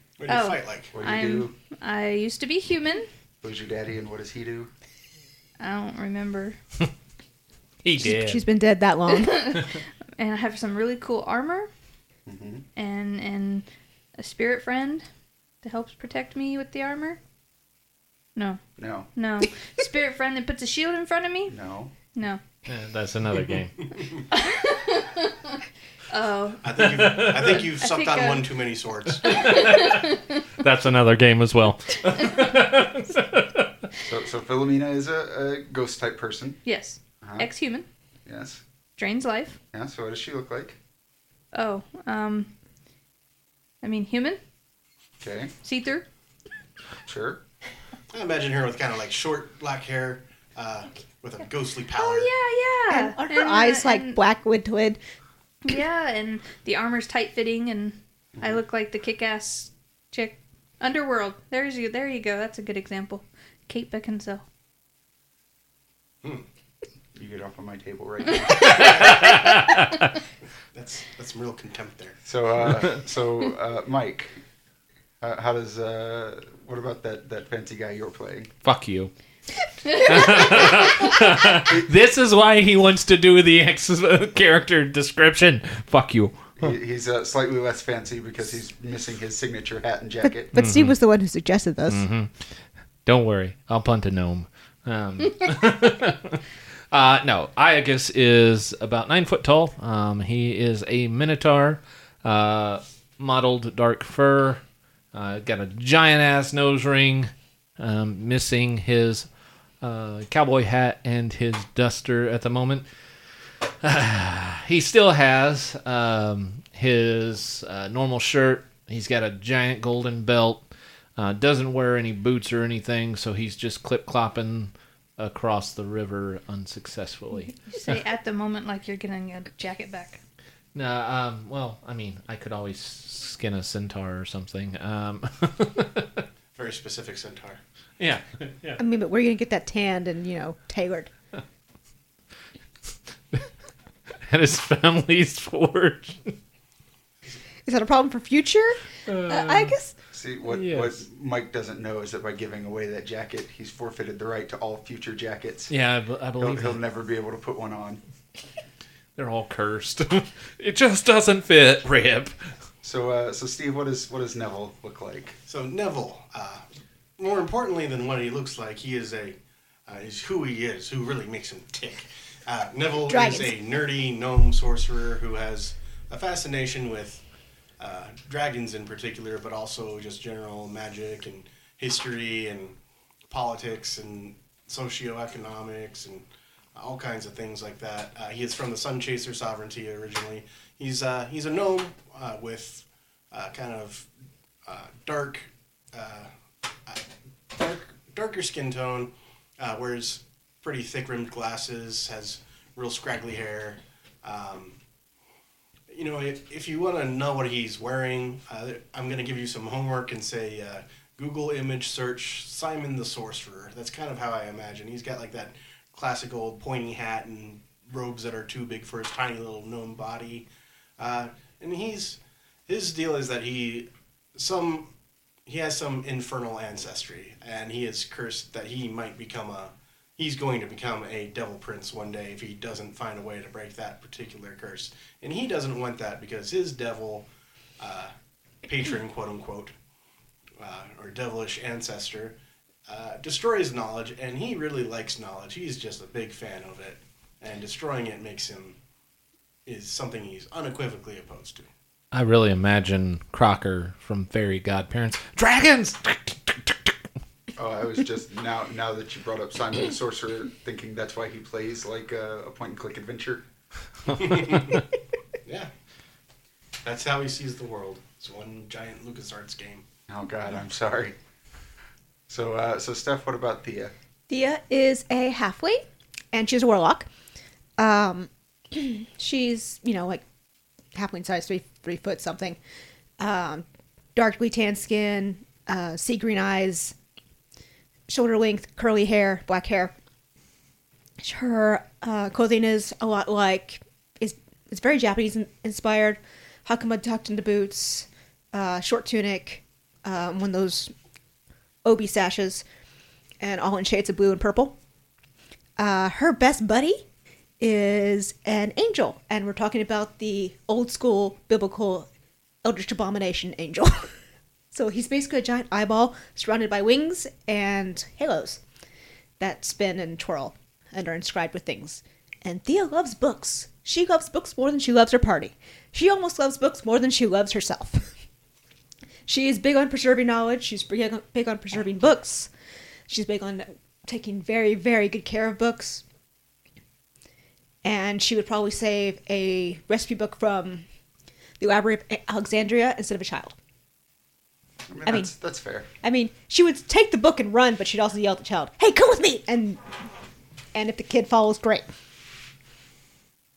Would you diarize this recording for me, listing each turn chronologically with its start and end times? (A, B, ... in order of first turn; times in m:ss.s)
0:00.2-0:00.9 A
0:00.3-0:03.1 B
0:00.9-0:01.6 C
0:03.4-0:04.7 C
0:05.6-0:06.6 B
0:07.8-0:08.5 D
0:08.0-0:09.6 E
0:09.1-0:11.7 B
0:12.3-0:12.6 C
0:12.8-0:13.6 B
0:14.2-0:15.0 B
0:15.6-0:17.2 B
0:18.8-0:19.1 C
0:19.1-0:21.6 B
0:21.5-0:21.9 C
0:22.1-0:22.4 B
0:22.7-0:24.0 D
0:24.2-0:28.5 B
0:26.6-0:29.6 A
0:26.9-0:27.6 D
0:29.2-0:33.7 D
0:29.2-0:30.4 B
0:32.1-0:32.4 B
0:34.0-0:36.6 C
0:36.6-0:37.8 B
0:37.2-0:37.5 C
0:38.2-0:38.6 C
0:39.0-0:39.6 B
0:39.7-0:40.8 C
0:41.5-0:42.5 B
0:43.8-0:44.4 B
0:45.2-0:45.5 C
0:45.6-0:46.0 B
0:47.0-0:47.4 C
0:48.1-0:52.3 A
0:52.0-0:54.2 B
0:52.9-0:55.0 E
0:55.6-1:04.4 B
1:07.1-1:09.1 C
1:08.6-1:09.7 D
1:10.7-1:12.2 A
1:12.2-1:14.4 C
1:15.2-1:18.5 C
1:18.6-1:19.1 D
1:19.8-1:20.9 B
1:19.9-1:26.7 D
1:20.4-1:20.8 C
1:21.6-1:21.9 C
1:26.6-1:30.5 C
1:30.2-1:32.0 E
1:30.5-1:31.0 D
1:31.9-1:32.5 D
1:33.0-1:44.6 D
1:45.1-1:49.3 D
1:49.8-1:52.8 D
1:53.8-2:00.6 D
2:01.2-2:08.0 D
2:07.7-2:10.2 B
2:10.7-2:16.2 D
2:16.5-2:17.6 A
2:18.0-2:18.8 D
2:18.8-2:21.1 E
2:24.2-2:26.4 D
2:27.6-2:29.9 E
2:29.1-2:29.7 D
2:30.1-2:35.7 C
2:30.4-2:31.0 D
2:35.7-2:36.8 D
2:36.4-2:38.0 C
2:39.2-2:42.5 D
2:42.8-2:45.4 C
2:45.5-2:46.6 A
2:47.2-2:57.2 A
2:53.1-2:53.6 E
2:57.8-3:02.8 A
3:03.3-3:14.1 A
3:14.6-3:16.3 A
3:16.8-3:24.8 A
3:25.9-3:44.9 A
3:45.4-3:57.3 A
3:57.8-3:58.1 A
3:58.6-3:59.7 A
4:00.6-4:08.8 A
4:09.6-4:11.7 A
4:12.1-4:16.9 D
4:17.6-4:23.4 C
4:24.1-4:24.8 A
4:25.4-4:25.7 A
4:26.8-4:29.8 A
4:30.1-4:31.2 C
4:32.3-4:33.9 C
4:34.3-4:37.1 E
4:37.8-4:40.2 E
4:40.9-4:42.6 E
4:43.2-4:46.9 E
4:48.1-4:49.9 E
4:51.2-5:00.9 E
5:01.8-5:02.6 E
5:03.4-5:04.8 E
5:05.8-5:07.0 E
5:07.6-5:12.1 E
5:12.6-5:14.1 E
5:14.7-5:18.6 E
5:19.4-5:28.1 E
5:29.3-5:32.5 E
5:33.1-5:36.0 E
5:37.8-5:40.8 E
5:41.6-5:43.6 E
5:44.9-5:45.9 C
5:46.0-5:49.8 E
5:50.7-5:51.8 E